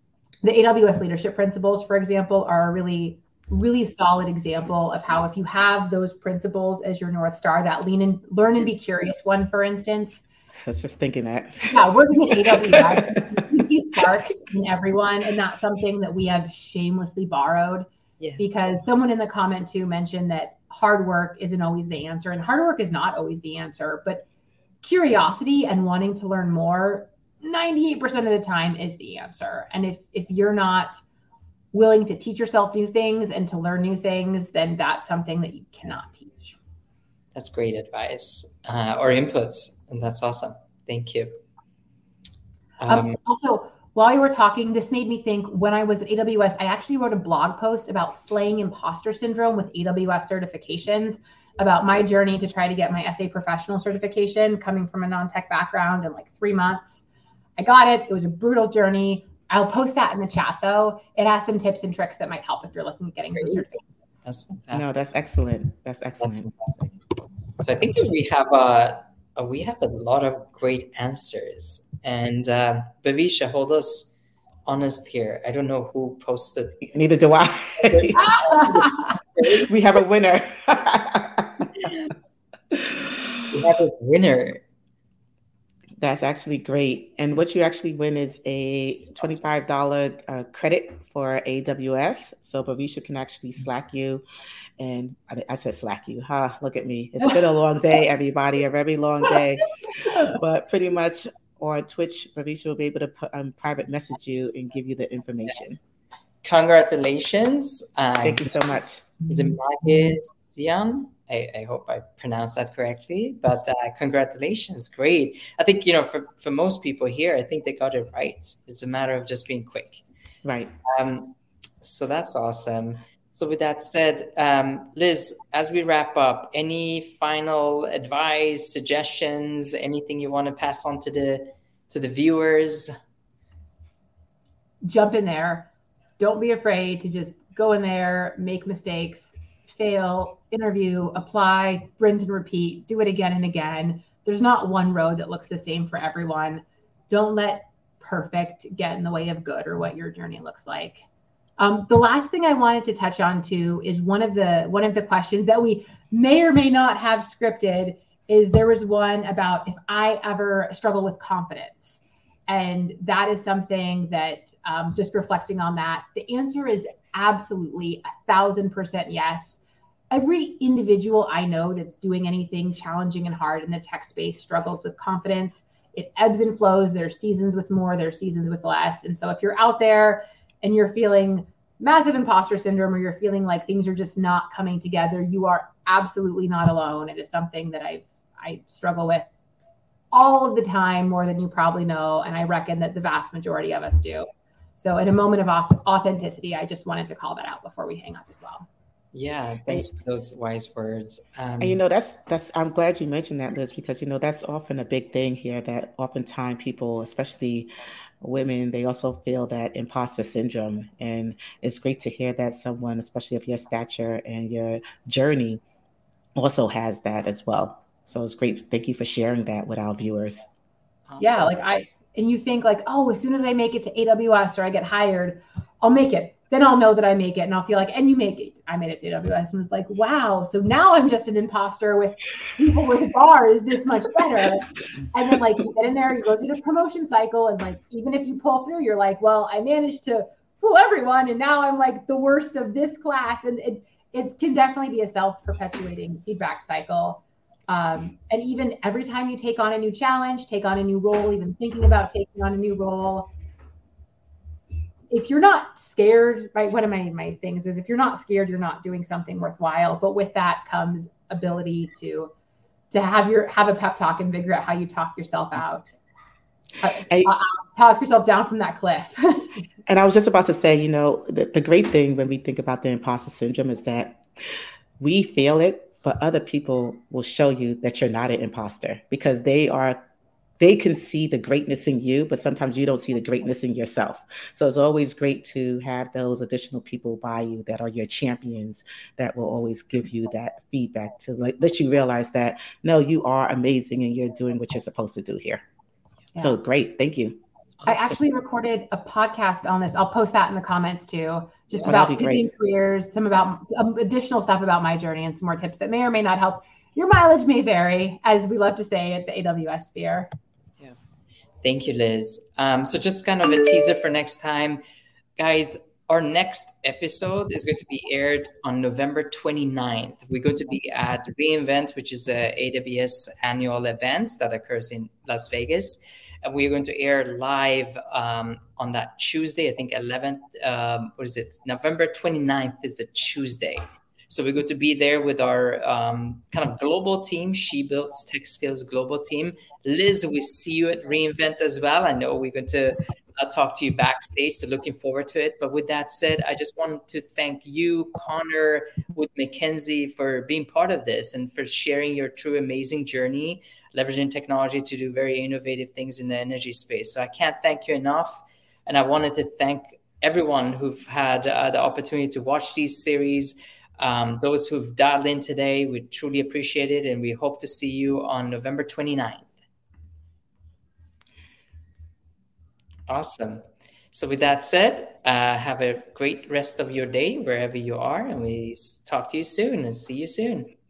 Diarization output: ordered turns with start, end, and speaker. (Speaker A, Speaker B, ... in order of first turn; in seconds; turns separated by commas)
Speaker A: 0.4-10.2, Speaker B: 10.7-13.4, Speaker A: 11.7-17.9, Speaker A: 18.4-24.3, Speaker A: 24.8-31.0, Speaker A: 31.7-36.6, Speaker C: 37.4-41.4, Speaker C: 42.8-43.2, Speaker A: 42.9-57.0, Speaker A: 57.6-63.9, Speaker C: 63.4-63.6, Speaker C: 64.2-65.0, Speaker B: 64.7-66.5, Speaker C: 66.2-67.0, Speaker C: 67.6-76.9, Speaker B: 76.9-78.3, Speaker C: 77.8-79.7, Speaker B: 79.7-81.7, Speaker C: 83.5-84.6, Speaker B: 86.0-94.2, Speaker B: 94.8-105.8, Speaker C: 106.4-120.0, Speaker B: 108.2-109.1, Speaker B: 120.4-120.8, Speaker C: 120.8-132.9, Speaker A: 134.8-151.0, Speaker A: 151.6-169.6, Speaker A: 170.1-189.3, Speaker A: 190.1-198.7, Speaker C: 199.1-201.8, Speaker B: 201.6-215.6, Speaker B: 216.4-220.5, Speaker C: 221.1-221.6, Speaker A: 221.2-253.3, Speaker A: 255.1-262.3, Speaker A: 262.9-265.9, Speaker A: 266.8-269.5, Speaker B: 269.9-274.2, Speaker B: 275.0-280.0, Speaker B: 280.6-295.6, Speaker B: 296.4-297.4, Speaker C: 297.8-298.2, Speaker A: 297.9-310.3, Speaker B: 301.8-302.5, Speaker C: 311.6-314.8, Speaker C: 315.4-369.5, Speaker C: 373.1-380.7